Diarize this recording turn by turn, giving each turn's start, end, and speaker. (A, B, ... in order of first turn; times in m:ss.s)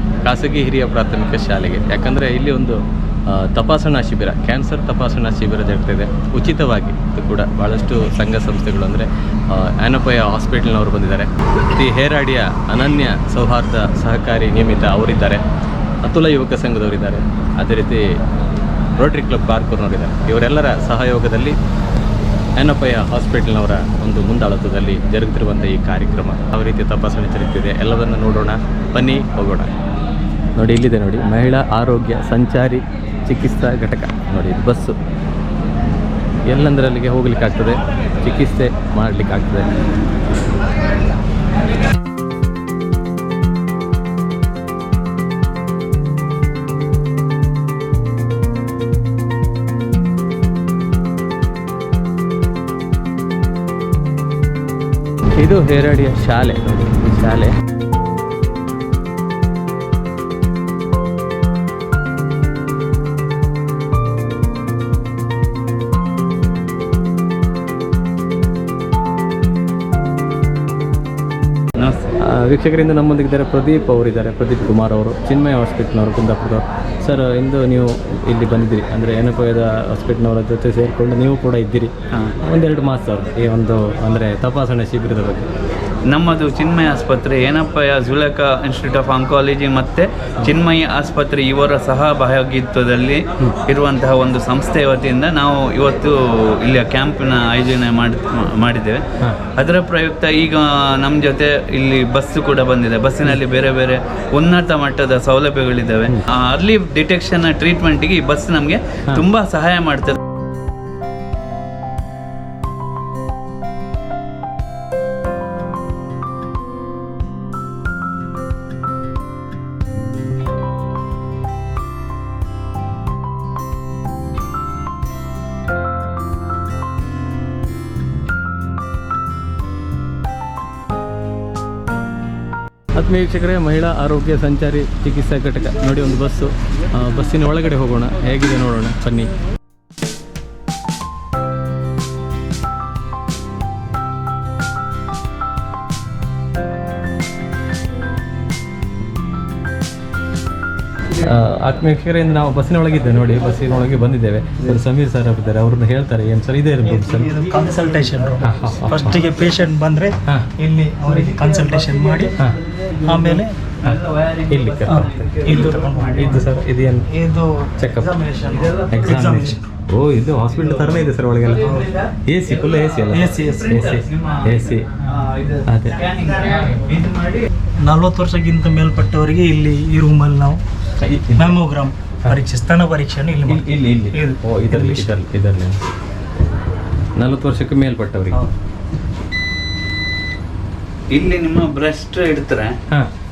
0:00.2-0:02.8 A
0:03.3-0:15.4 A
0:16.0-0:18.0 A
0:19.0-0:21.6 A
0:22.6-0:29.7 A
0:30.6-0:35.0 A
0:36.5-0:39.7 A
0:55.4-0:57.6 A
1:11.8-1:12.1 B
1:12.3-1:21.9 A
1:22.4-1:25.5 A
1:26.1-1:39.0 B
1:39.6-1:50.2 B
2:13.0-2:19.3 A
2:31.2-2:37.3 A
2:36.8-2:42.4 C
2:38.4-2:39.2 A
2:43.0-2:43.6 C
2:43.9-2:44.4 B
2:44.5-2:45.3 A
2:44.9-2:46.5 C
2:45.2-2:46.0 B
2:46.1-2:47.1 A
2:47.1-2:49.7 C
2:47.8-2:48.1 A
2:48.5-2:49.1 B
2:48.9-2:51.7 A
2:52.3-2:54.8 A
2:53.1-2:53.7 C
2:53.1-2:57.5 B
2:55.7-2:56.0 A
2:57.8-3:00.6 C
3:01.1-3:01.5 A
3:01.3-3:05.1 C
3:03.5-3:05.8 A
3:07.2-3:08.5 A
3:11.1-3:12.8 B